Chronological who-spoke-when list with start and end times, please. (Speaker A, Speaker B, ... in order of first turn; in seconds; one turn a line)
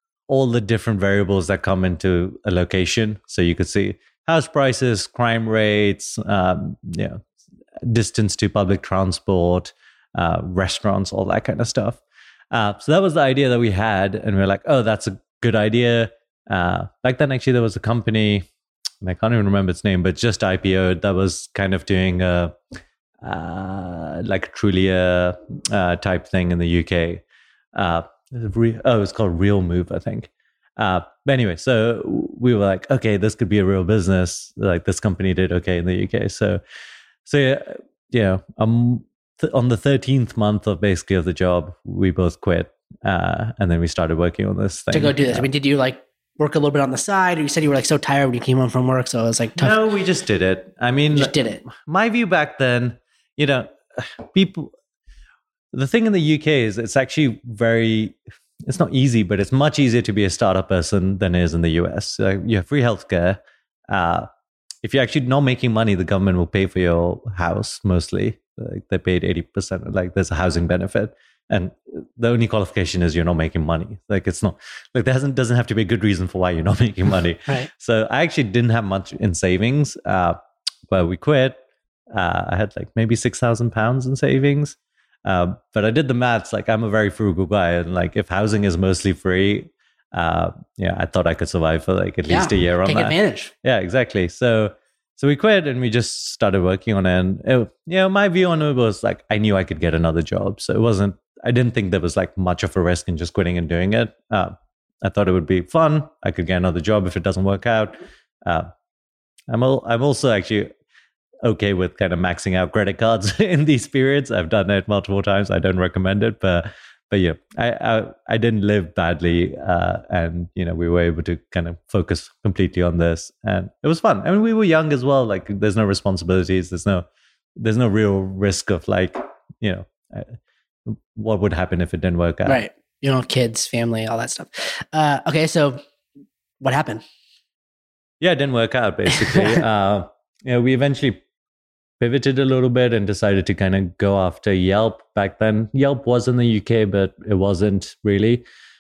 Speaker A: 0.3-7.2
Speaker A: 7.8-12.0
Speaker A: 12.5-18.5
Speaker A: 19.0-22.5
Speaker A: 23.2-27.2
Speaker A: 27.7-36.6
Speaker A: 37.2-45.5
Speaker B: 44.9-49.8
Speaker A: 49.6-54.7
Speaker B: 51.1-51.6
Speaker A: 55.7-63.4
Speaker A: 63.9-64.3
Speaker A: 64.8-80.4
Speaker A: 80.9-81.6
Speaker A: 82.1-108.7
Speaker B: 92.3-93.5
Speaker A: 109.5-110.7
Speaker A: 111.4-127.0
Speaker A: 127.6-132.6
Speaker B: 132.4-135.8
Speaker B: 136.6-137.0
Speaker A: 138.2-141.2
Speaker A: 142.0-148.4